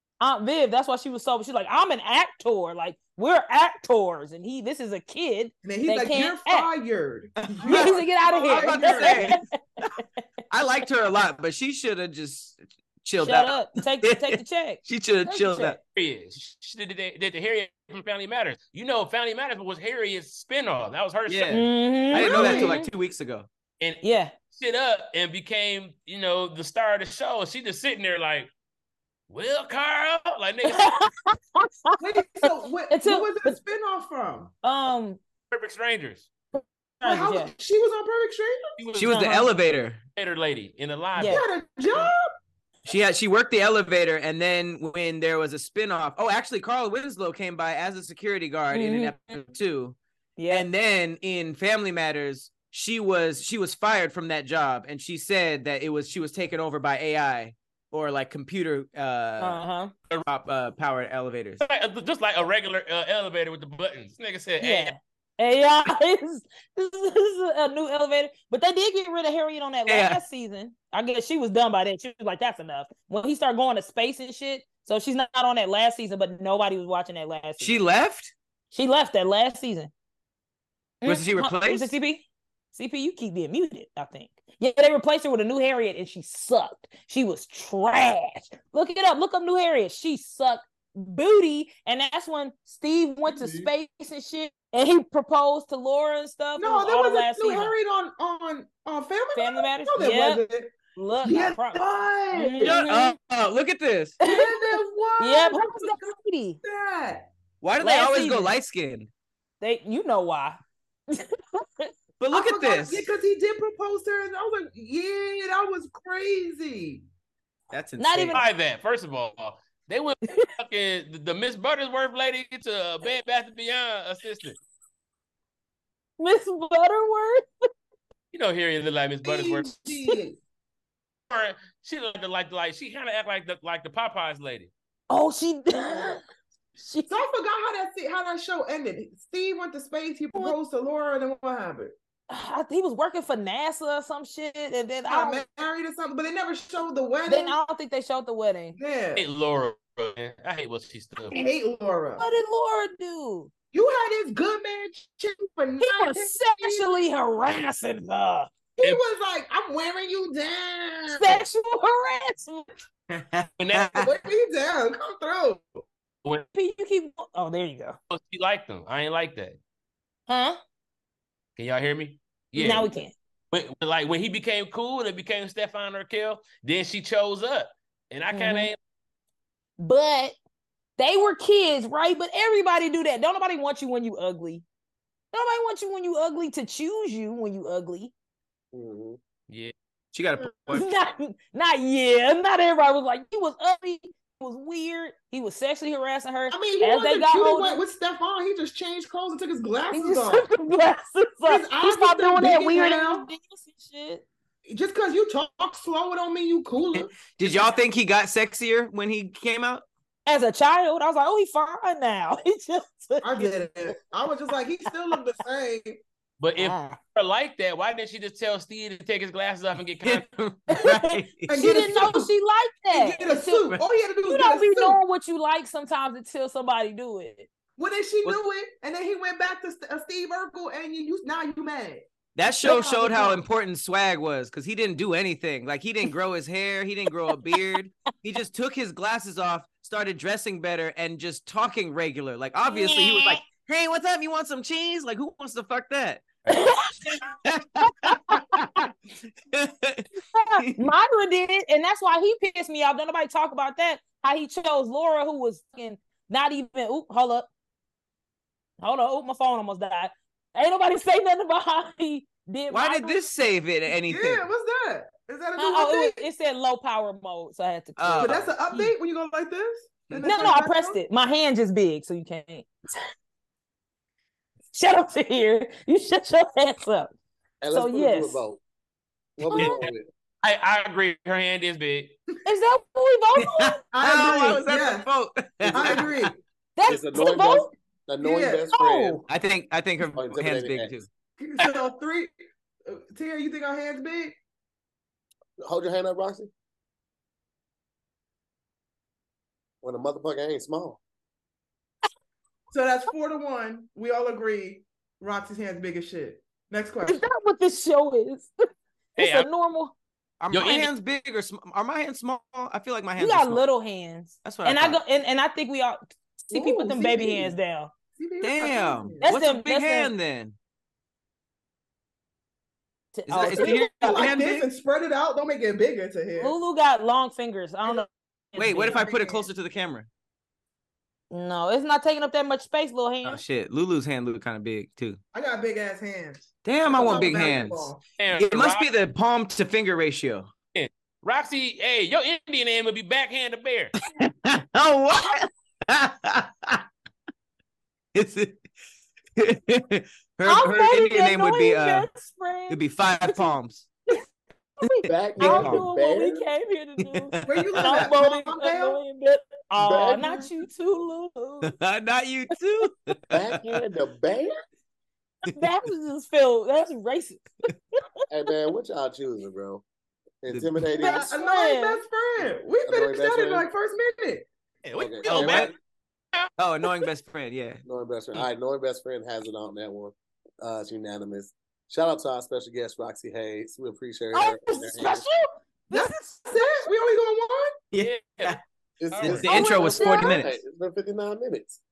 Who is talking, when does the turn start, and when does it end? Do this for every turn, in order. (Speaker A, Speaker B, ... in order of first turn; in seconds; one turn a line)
Speaker A: 0.2-6.7
Speaker B: 5.6-9.3
Speaker C: 7.5-10.0
Speaker A: 7.6-9.8
Speaker C: 10.5-15.8
Speaker A: 13.2-15.8
Speaker D: 15.9-21.6
Speaker C: 21.3-23.5
Speaker A: 21.5-22.9
Speaker B: 22.1-22.8
Speaker D: 23.8-28.5
Speaker A: 24.0-24.3
Speaker D: 29.3-30.9
Speaker A: 30.6-33.6
Speaker B: 32.0-34.5
Speaker A: 34.6-35.2
Speaker D: 35.5-36.3
Speaker B: 36.6-38.7
Speaker A: 37.0-37.5
Speaker D: 38.8-39.1
Speaker C: 39.0-40.0
Speaker A: 39.1-39.5
Speaker D: 40.2-41.4
Speaker A: 41.1-41.5
Speaker B: 41.2-42.3
Speaker C: 42.8-50.0
Speaker A: 48.7-49.2
Speaker A: 50.4-50.7
Speaker C: 50.5-59.6
Speaker A: 59.4-59.9
Speaker C: 60.3-61.6
Speaker D: 61.6-64.9
Speaker A: 64.6-77.8
Speaker C: 69.9-70.2
Speaker C: 77.6-78.3
Speaker A: 78.7-79.9
Speaker A: 81.0-97.7
Speaker C: 81.0-81.9
Speaker B: 93.3-93.7
Speaker B: 96.6-102.8
Speaker A: 99.3-100.4
Speaker A: 100.9-103.1
Speaker C: 102.6-104.2
Speaker A: 104.2-106.6
Speaker B: 104.2-107.3
Speaker C: 107.6-109.1
Speaker A: 107.8-108.5
Speaker A: 109.6-111.9
Speaker C: 112.2-113.1
Speaker B: 112.3-117.0
Speaker C: 117.7-118.4
Speaker A: 118.0-118.5
Speaker D: 118.3-124.6
Speaker A: 120.2-120.5
Speaker A: 126.2-127.5
Speaker D: 128.3-130.0
Speaker B: 129.2-130.3
Speaker D: 131.3-134.7
Speaker A: 135.1-136.2
Speaker A: 136.8-137.2
Speaker B: 137.1-141.9
Speaker A: 142.3-145.4
Speaker B: 145.1-147.6
Speaker A: 147.3-148.8
Speaker B: 148.8-149.2
Speaker D: 149.2-151.4
Speaker B: 151.3-152.3
Speaker A: 152.2-153.5
Speaker B: 153.7-156.9
Speaker A: 155.8-158.5
Speaker B: 158.8-161.4
Speaker A: 161.1-162.7
Speaker C: 163.1-164.1
Speaker D: 163.6-163.9
Speaker B: 163.9-165.8
Speaker A: 166.5-168.0
Speaker D: 168.1-169.6
Speaker A: 170.3-170.6
Speaker D: 171.6-172.9
Speaker A: 172.6-173.1
Speaker D: 173.5-178.8
Speaker A: 178.3-178.7
Speaker A: 179.8-180.3
Speaker A: 181.0-184.6
Speaker A: 185.3-188.1
Speaker E: 188.7-189.2
Speaker C: 190.1-190.8
Speaker A: 190.7-197.8
Speaker B: 196.5-200.5
Speaker A: 199.9-204.2
Speaker B: 201.4-203.3
Speaker B: 204.7-207.2
Speaker C: 206.9-209.8
Speaker D: 207.4-207.7
Speaker A: 210.2-213.6
Speaker B: 213.2-216.0
Speaker D: 216.4-220.2
Speaker A: 216.6-217.0
Speaker C: 220.0-221.8
Speaker A: 220.7-227.5
Speaker B: 221.5-222.3
Speaker B: 222.9-225.0
Speaker B: 227.8-232.0
Speaker C: 232.3-246.3
Speaker B: 232.6-233.4
Speaker A: 242.7-243.4
Speaker A: 246.5-247.1
Speaker C: 247.0-248.9
Speaker A: 248.1-248.6
Speaker C: 249.5-250.8
Speaker A: 250.3-257.5
Speaker A: 258.8-263.2
Speaker C: 262.7-264.5
Speaker B: 264.0-266.2
Speaker A: 265.6-268.9
Speaker C: 268.0-268.5
Speaker B: 268.2-271.0
Speaker A: 270.2-272.7
Speaker A: 274.7-277.1
Speaker E: 277.6-278.6
Speaker A: 277.7-278.4
Speaker E: 279.4-280.1
Speaker A: 279.5-279.8
Speaker D: 279.5-279.9
Speaker D: 280.4-282.2
Speaker A: 282.4-283.9
Speaker C: 283.4-286.3
Speaker B: 283.9-285.1
Speaker E: 285.6-286.1
Speaker B: 285.7-286.4
Speaker A: 286.8-287.7
Speaker E: 286.8-289.2
Speaker B: 288.2-288.7
Speaker A: 288.7-289.2
Speaker C: 289.3-291.1
Speaker E: 290.0-290.9
Speaker B: 291.4-292.3
Speaker B: 292.9-294.3
Speaker E: 295.6-296.5
Speaker E: 299.8-301.0
Speaker B: 302.7-307.2
Speaker A: 307.1-308.5
Speaker A: 309.1-309.9
Speaker D: 309.2-309.5
Speaker C: 310.4-313.6
Speaker D: 310.5-310.9
Speaker A: 313.2-317.9
Speaker C: 314.4-315.0
Speaker B: 316.5-317.6
Speaker B: 318.1-319.3
Speaker C: 318.4-320.6
Speaker A: 319.2-320.1
Speaker A: 323.1-324.3
Speaker C: 323.3-324.7
Speaker B: 323.4-326.6
Speaker A: 326.4-329.1
Speaker C: 328.5-330.1
Speaker B: 328.8-329.5
Speaker A: 331.3-333.4
Speaker C: 333.2-335.2
Speaker B: 335.3-338.0
Speaker C: 336.6-340.5
Speaker D: 338.2-338.9
Speaker D: 340.7-343.9
Speaker C: 344.1-346.8
Speaker C: 348.1-348.6
Speaker C: 349.4-352.1
Speaker A: 350.4-353.5
Speaker C: 352.7-353.9
Speaker A: 354.8-361.7
Speaker C: 354.9-355.9
Speaker E: 355.1-356.5
Speaker C: 357.0-358.0
Speaker B: 357.4-359.0
Speaker E: 359.8-360.5
Speaker C: 361.6-363.6
Speaker E: 363.3-364.5
Speaker A: 365.5-367.7
Speaker E: 368.3-369.8
Speaker E: 370.4-371.3
Speaker C: 370.5-371.0
Speaker A: 371.0-372.0
Speaker B: 371.0-374.4
Speaker E: 372.4-373.6
Speaker D: 374.8-375.7
Speaker E: 375.0-375.7
Speaker C: 375.3-375.7
Speaker C: 376.6-377.8
Speaker E: 377.9-385.3
Speaker A: 384.3-386.9
Speaker B: 385.9-387.7
Speaker C: 387.9-388.6
Speaker D: 388.0-388.6
Speaker E: 389.0-391.8
Speaker D: 389.1-389.4
Speaker C: 389.2-390.6
Speaker B: 389.4-390.4